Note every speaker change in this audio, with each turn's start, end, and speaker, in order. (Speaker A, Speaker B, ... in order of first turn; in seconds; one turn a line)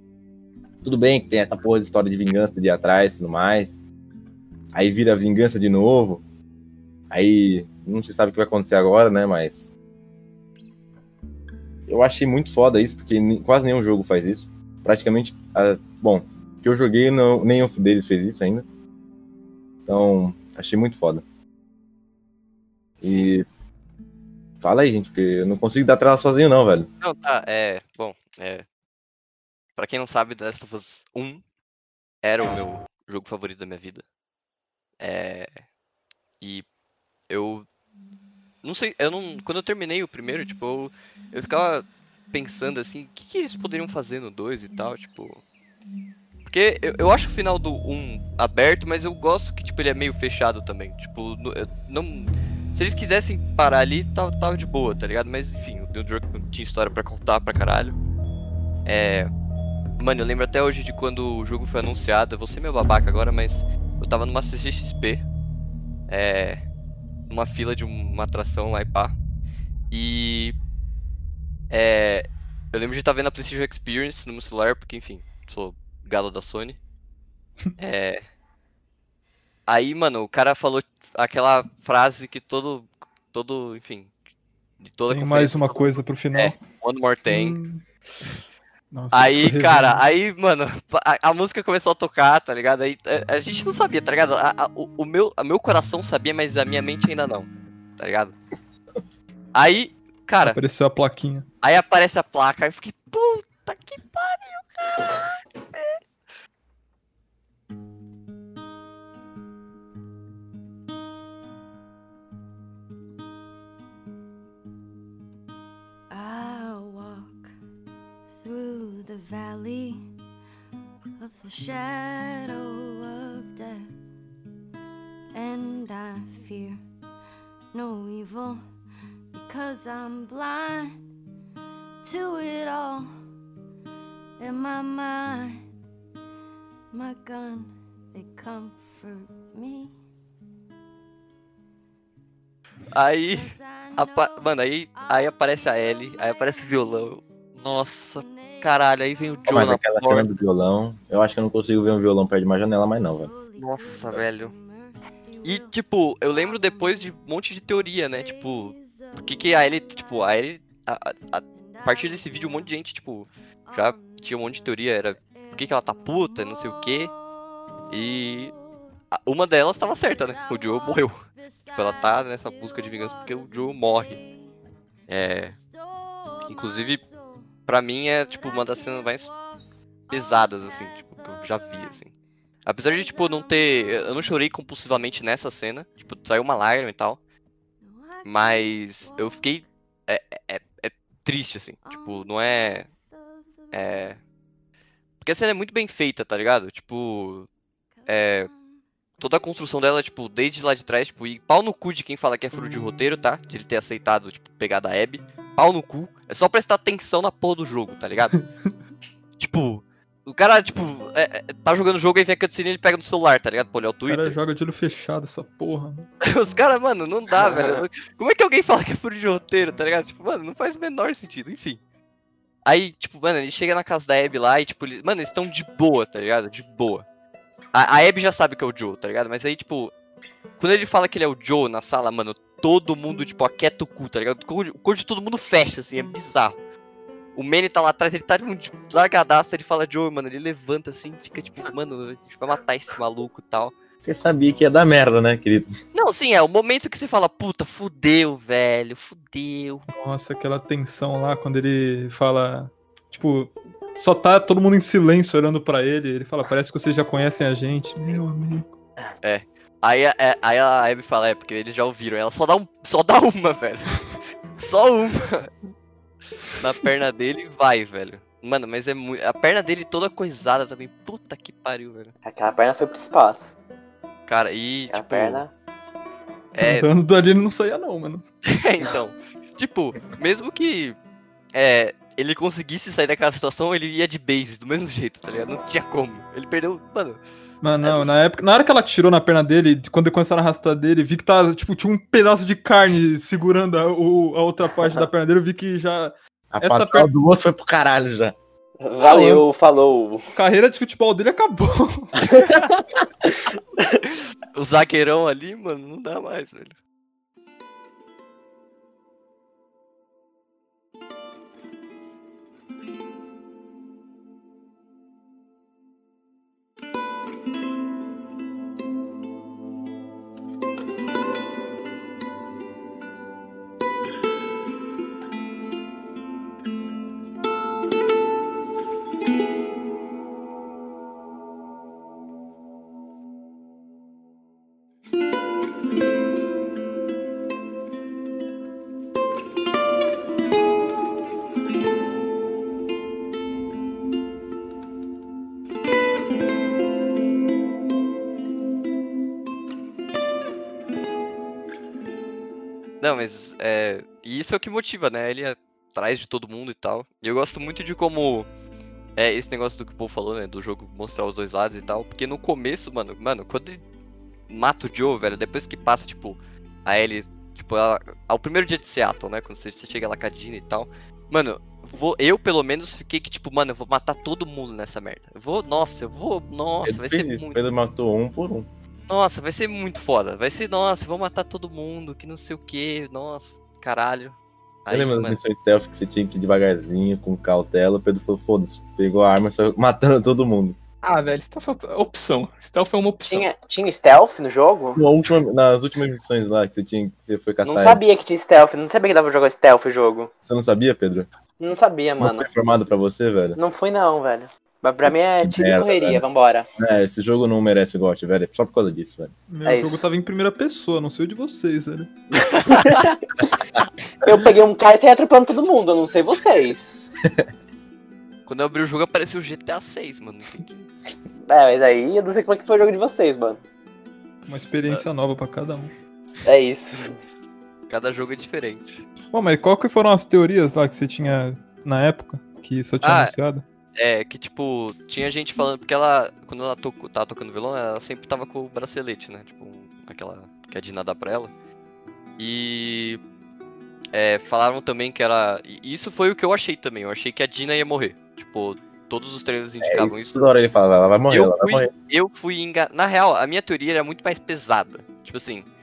Speaker A: 0.8-3.8
Speaker A: 4.7-6.2
Speaker A: 7.1-9.7
Speaker A: 11.9-18.6
Speaker A: 19.9-21.2
Speaker B: 23.0-23.3
Speaker A: 23.0-23.4
Speaker A: 24.6-26.9
Speaker B: 27.0-28.6
Speaker B: 29.8-31.4
Speaker B: 32.2-34.0
Speaker B: 35.0-35.6
Speaker B: 37.3-37.7
Speaker B: 38.6-45.4
Speaker B: 46.5-58.0
Speaker B: 58.9-59.3
Speaker B: 60.0-65.2
Speaker B: 66.1-66.6
Speaker B: 67.3-69.1
Speaker B: 69.9-70.5
Speaker B: 71.7-76.8
Speaker B: 77.8-78.2
Speaker B: 79.7-84.1
Speaker B: 84.8-87.6
Speaker C: 85.1-86.6
Speaker C: 87.3-87.8
Speaker C: 88.9-90.0
Speaker B: 89.1-98.3
Speaker B: 99.5-100.6
Speaker C: 100.4-101.5
Speaker B: 101.6-106.0
Speaker D: 116.1-117.5
Speaker D: 118.3-120.0
Speaker D: 121.2-123.9
Speaker D: 125.3-126.8
Speaker D: 127.7-128.6
Speaker D: 129.3-131.0
Speaker D: 132.0-133.1
Speaker D: 134.4-135.6
Speaker D: 136.9-139.9
Speaker B: 142.9-150.3
Speaker D: 143.3-147.3
Speaker D: 148.1-148.8
Speaker A: 149.5-153.3
Speaker D: 153.2-155.7
Speaker B: 153.6-154.5
Speaker B: 155.4-167.1
Speaker D: 156.3-157.2
Speaker D: 157.8-160.3
Speaker D: 161.6-162.8
Speaker D: 163.7-167.1
Speaker B: 167.9-168.5
Speaker B: 169.1-171.2
Speaker D: 170.1-174.5
Speaker B: 171.8-174.2
Speaker B: 175.1-175.5
Speaker D: 175.2-177.5
Speaker B: 176.5-177.0
Speaker B: 177.7-179.3
Speaker D: 178.3-182.0
Speaker B: 180.1-182.1
Speaker B: 182.6-187.2
Speaker D: 182.8-184.3
Speaker D: 187.8-189.6
Speaker B: 188.2-192.8
Speaker D: 191.8-194.1
Speaker B: 193.7-194.2
Speaker B: 195.2-197.5
Speaker D: 198.0-198.8
Speaker B: 198.1-198.5
Speaker B: 199.2-208.4
Speaker B: 209.4-214.3
Speaker C: 214.1-216.1
Speaker B: 216.2-221.8
Speaker E: 217.3-217.8
Speaker B: 222.7-227.0
Speaker B: 227.7-229.9
Speaker B: 230.6-236.6
Speaker B: 237.3-243.7
Speaker A: 244.0-245.7
Speaker B: 245.9-249.9
Speaker C: 249.9-258.7
Speaker B: 259.2-265.5
Speaker B: 266.6-272.1
Speaker E: 272.2-273.5
Speaker B: 274.3-275.4
Speaker E: 274.9-275.5
Speaker B: 276.5-276.9
Speaker C: 276.6-278.2
Speaker B: 278.4-280.9
Speaker B: 281.5-287.2
Speaker C: 287.6-297.1
Speaker B: 287.8-288.1
Speaker A: 296.5-298.3
Speaker E: 298.8-300.2
Speaker C: 299.0-299.4
Speaker C: 300.3-302.2
Speaker E: 302.2-304.0
Speaker B: 304.5-306.8
Speaker B: 353.0-358.5
Speaker B: 359.1-363.8
Speaker B: 364.5-377.6
Speaker A: 376.8-378.7
Speaker B: 379.1-385.4
Speaker A: 384.9-390.8
Speaker F: 391.0-393.5
Speaker E: 393.3-395.0
Speaker A: 394.9-398.0
Speaker E: 397.6-400.3
Speaker A: 400.4-401.3
Speaker E: 401.6-402.5
Speaker A: 402.2-403.6
Speaker E: 403.6-406.7
Speaker A: 405.4-406.2
Speaker A: 406.8-409.3
Speaker C: 409.5-412.1
Speaker E: 409.6-410.1
Speaker E: 412.5-413.5
Speaker E: 414.2-417.1
Speaker B: 418.5-420.9
Speaker E: 421.5-423.6
Speaker C: 424.5-425.9
Speaker E: 426.4-427.1
Speaker B: 427.9-429.0
Speaker C: 429.3-433.6
Speaker B: 433.0-433.3
Speaker B: 433.9-441.5
Speaker B: 442.4-443.2
Speaker B: 444.1-450.4
Speaker A: 449.8-451.9
Speaker B: 451.3-455.6